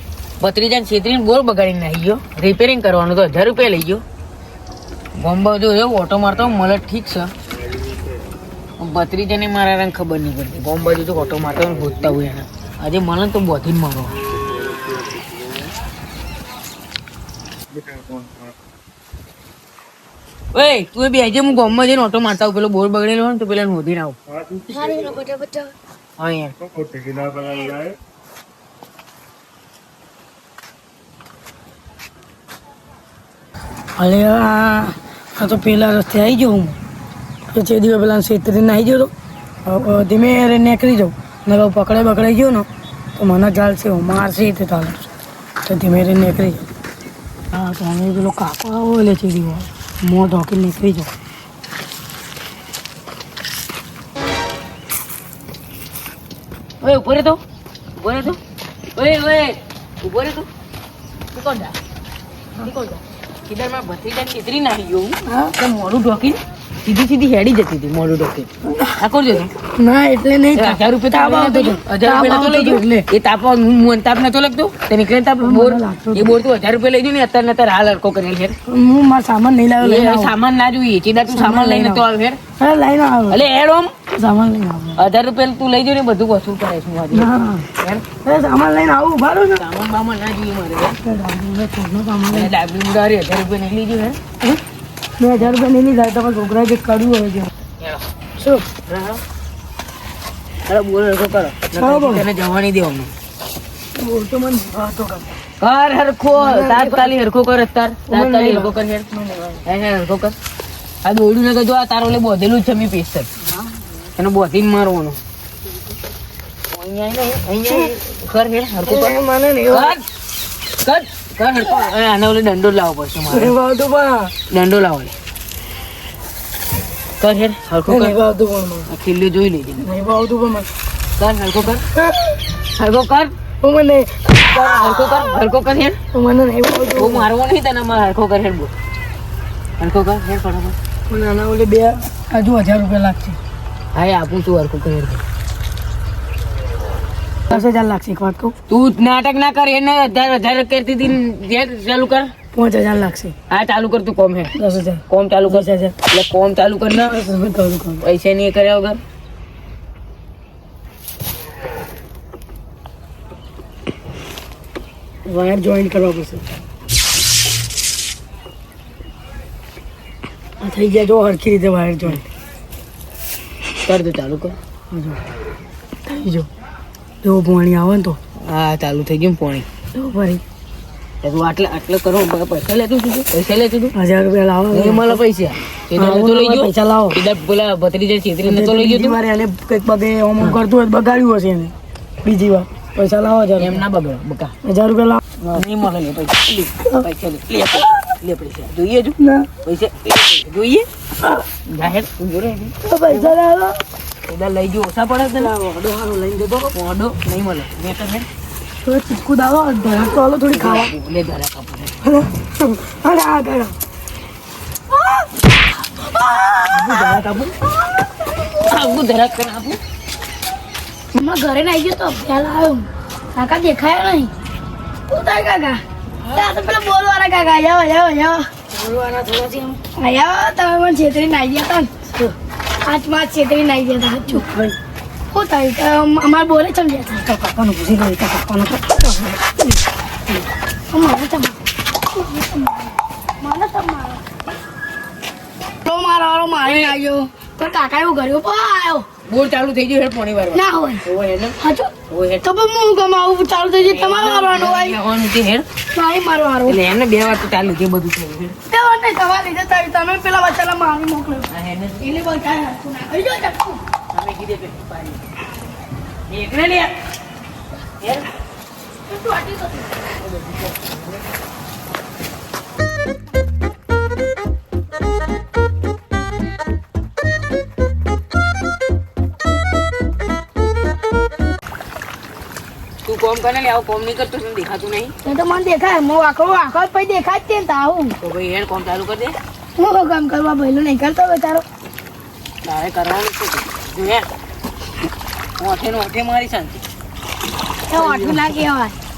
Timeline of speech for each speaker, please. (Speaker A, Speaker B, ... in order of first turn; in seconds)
Speaker A: 0.4-4.0, 5.2-7.3, 8.8-14.1, 20.5-24.2, 26.2-26.5, 56.8-57.4, 58.0-58.4, 59.0-60.5, 61.3-61.8, 62.6-69.5, 70.5-78.6, 79.8-82.4, 83.3-83.9, 85.0-88.0, 89.5-91.0, 92.3-94.2, 98.9-99.2, 100.7-103.1, 105.6-109.1, 109.6-110.3, 111.0-113.3, 114.2-115.2, 116.7-119.2, 119.7-120.0, 120.8-123.5, 124.5-125.1, 127.2-128.2, 128.9-129.9, 131.2-131.9, 132.8-133.3, 134.4-136.0, 136.9-138.7, 139.8-140.8, 143.9-145.2, 148.7-152.3, 153.5-154.6, 155.1-157.2, 158.0-159.0, 173.8-174.6, 178.4-179.7, 181.2-184.0, 184.7-189.2, 193.6-194.5, 195.5-200.9, 201.7-203.3, 204.3-205.5, 206.7-208.3, 210.5-211.9, 216.7-217.5, 218.6-219.8, 246.6-247.0, 249.3-252.5, 253.8-255.7, 256.6-258.6, 261.5-262.2, 264.1-265.2, 266.3-266.9, 268.0-268.3, 270.2-271.0, 283.1-285.1, 288.2-289.4, 292.6-294.3, 295.6-296.8, 297.9-298.6
Speaker B: 24.7-25.7, 221.2-224.3, 225.1-225.8, 226.6-228.5, 230.0-231.9, 232.8-234.4, 235.3-237.2, 240.9-241.6, 242.2-242.7, 243.4-244.2, 245.9-246.5, 247.4-249.1, 250.5-251.0, 252.6-253.6, 256.0-256.7, 258.7-261.1, 262.2-263.8, 269.1-269.9, 285.3-288.1, 289.8-291.6, 297.9-299.0
Speaker C: 34.0-36.8, 37.5-39.1, 39.6-45.1, 45.6-46.7, 47.5-51.1, 65.2-65.5, 69.7-73.0, 75.4-76.4, 78.7-80.4, 81.3-82.0, 82.6-83.4, 84.1-85.0, 87.1-87.7, 88.2-89.6, 91.0-92.5, 95.2-97.5, 98.4-98.7, 101.7-102.3, 104.0-105.3, 106.3-107.1, 108.1-109.6, 113.5-114.0, 118.8-120.0, 123.3-124.3, 127.9-128.9, 129.8-130.7, 131.9-132.4, 133.6-135.3, 136.1-137.3, 141.1-143.4, 147.5-148.6, 152.5-153.3, 154.6-156.0, 157.0-158.0, 165.3-166.4, 170.6-172.2, 174.9-175.2, 176.1-176.5, 177.2-178.2, 179.9-180.4, 183.9-185.2, 185.9-187.2, 188.4-193.8, 194.6-195.6, 199.2-199.5, 202.8-203.8, 205.2-206.7, 208.8-210.9, 212.0-213.8, 216.0-217.2, 226.3-226.8, 228.7-230.0, 232.1-232.3, 234.3-234.8, 237.1-239.5, 245.9-247.3, 252.6-254.6, 256.0-256.7, 259.5-261.4